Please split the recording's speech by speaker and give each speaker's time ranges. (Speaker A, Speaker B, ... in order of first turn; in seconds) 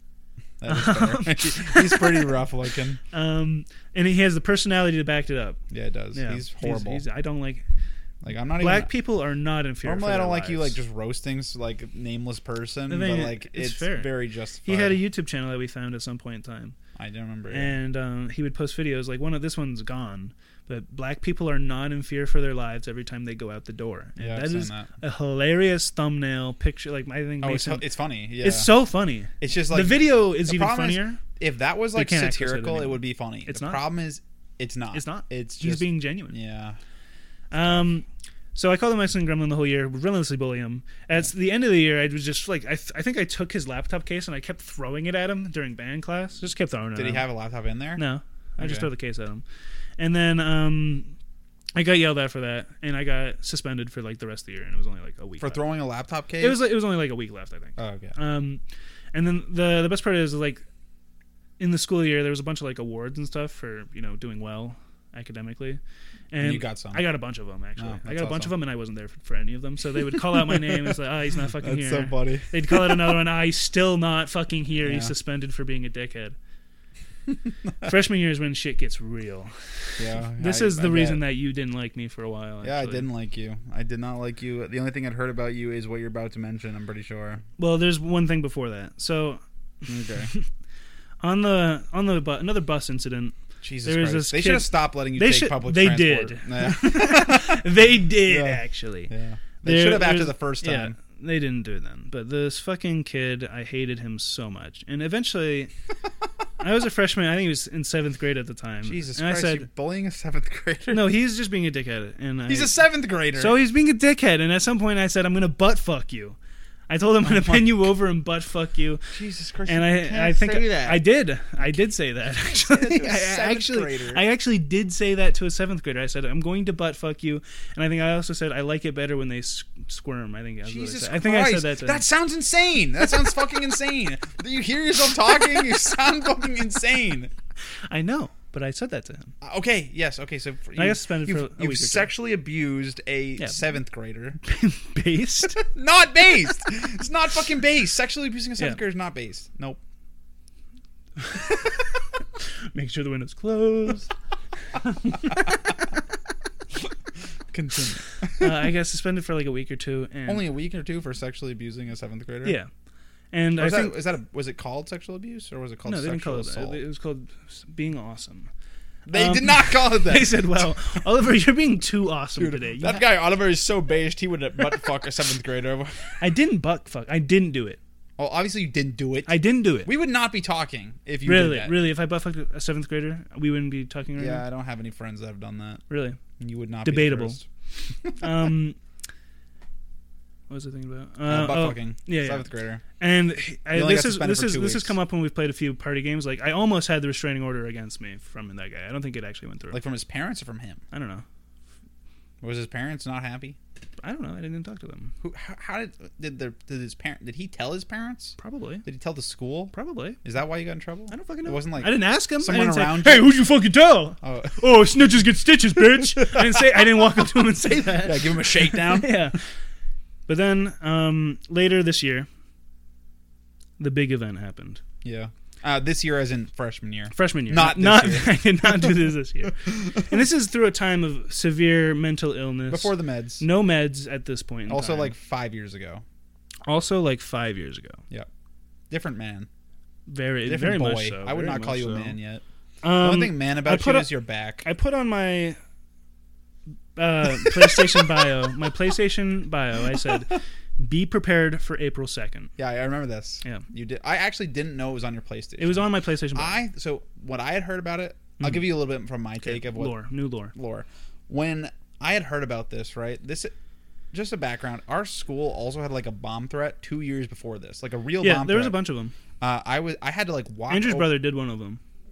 Speaker A: 0.6-3.0, 5.7-7.0, 8.2-8.9, 9.8-15.0, 17.0-17.8, 24.2-24.9, 27.4-28.7, 29.4-36.8, 47.0-48.0, 48.6-48.9, 55.4-56.7, 57.8-58.2, 66.4-67.1, 67.8-68.5, 70.3-71.0, 71.6-73.2, 74.8-75.1, 80.0-81.2, 82.6-87.4, 89.9-90.3, 93.6-97.7, 98.2-101.0, 108.8-111.1, 112.5-113.6, 117.2-117.7, 119.1-121.0, 122.5-124.2, 130.7-137.3, 139.4-144.4, 145.6-149.8, 157.5-158.7, 160.3-162.6, 163.6-166.8, 169.1-170.7, 172.4-176.2, 178.2-181.8, 184.2-185.8, 186.4-187.4, 188.0-188.5, 191.3-192.8, 193.7-195.0, 199.7-200.8, 202.4-203.6, 205.2-213.3, 214.2-214.6, 216.2-216.8, 217.9-219.3, 225.0-228.9, 232.7-233.4, 234.7-236.0, 238.9-239.5, 240.4-242.4, 243.0-244.7, 247.8-248.1, 252.6-260.0, 260.5-263.5, 264.1-268.8, 269.4-271.1
Speaker B: 0.7-2.3, 3.1-5.6, 6.1-7.7, 8.6-10.8, 12.9-14.1, 14.7-16.8, 17.5-27.9, 28.4-31.2, 31.9-33.9, 34.9-36.4, 37.5-47.3, 48.0-49.4, 50.0-51.1, 51.8-55.7, 56.4-58.6, 59.1-60.6, 61.6-65.8, 66.3-76.4, 77.8-83.1, 87.6-89.4, 90.0-90.5, 91.2-99.1, 99.6-105.7, 106.6-109.7, 110.9-112.8, 113.3-116.4, 116.9-119.0, 119.7-132.1, 137.9-139.3, 140.8-142.1, 144.4-145.6, 151.2-151.6, 152.4-154.1, 154.7-155.7, 158.4-160.4, 162.4-162.7, 163.3-164.0, 165.8-168.5, 169.1-173.0, 176.2-177.8, 179.3-179.9, 181.2-184.4, 185.9-186.2, 186.8-187.4, 188.1-188.8, 190.5-192.5, 193.0-199.8, 200.9-201.2, 204.0-205.1, 208.4-208.9, 209.7-210.2, 211.1-219.4, 220.3-222.3, 223.8-224.8, 227.1-235.1, 236.7-238.0, 240.1-242.2, 242.8-244.1, 244.6-245.6, 247.0-252.5, 255.6-256.6, 258.4-258.7, 259.4-260.6, 268.2-269.1, 270.7-271.8